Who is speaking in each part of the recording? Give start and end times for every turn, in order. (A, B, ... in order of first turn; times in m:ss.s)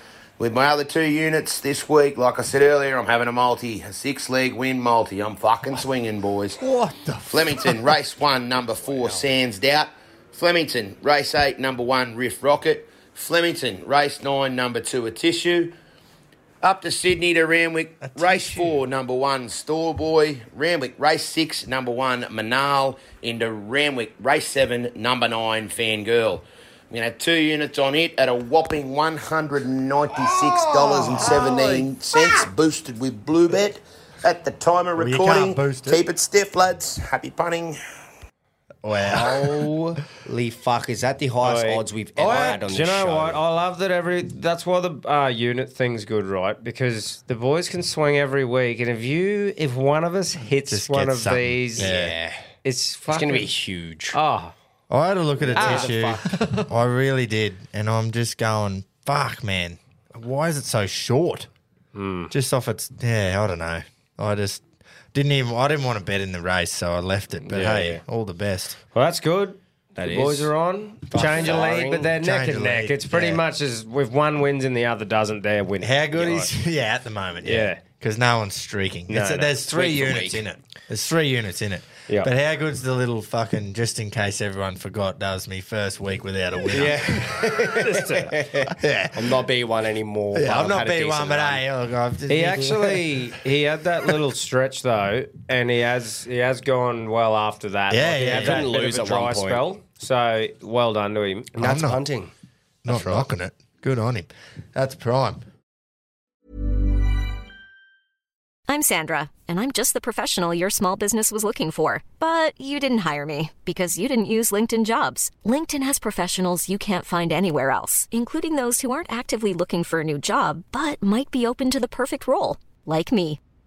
0:00.4-0:06.6 A
0:06.6-0:07.8 B
0:07.3-0:15.7 A
0:16.6-0:37.8 A
0:18.0-0:18.8 B
0:30.2-0:31.8 B
0:35.0-0:36.0 B
0:38.8-0:39.6 B
0:39.1-0:43.4 C
0:41.4-0:51.9 D
0:42.2-0:42.6 B
0:50.7-0:52.1 B
0:51.8-0:52.4 C
0:52.6-0:53.5 D
0:53.1-0:54.2 C
0:54.1-0:54.5 D
0:54.9-1:01.5 B
0:55.4-0:56.3 C
0:55.5-0:56.6 D
1:01.9-1:02.3 D
1:02.3-1:04.6 B
1:05.1-1:08.8 B
1:07.5-1:08.0 C
1:08.9-1:16.5 D
1:09.9-1:10.5 C
1:11.1-1:12.1 C
1:11.1-1:13.4 B
1:15.8-1:27.5 B
1:17.4-1:17.8 D
1:19.1-1:19.6 D
1:19.7-1:20.4 C
1:26.7-1:31.6 C
1:27.7-1:28.4 D
1:28.7-1:29.2 B
1:30.3-1:33.0 B
1:32.3-1:41.5 D
1:37.9-1:38.7 B
1:38.2-1:39.8 C
1:41.6-1:42.3 C
1:41.6-1:42.0 B
1:42.8-1:45.4 B
1:42.8-1:43.3 C
1:48.7-2:03.4 E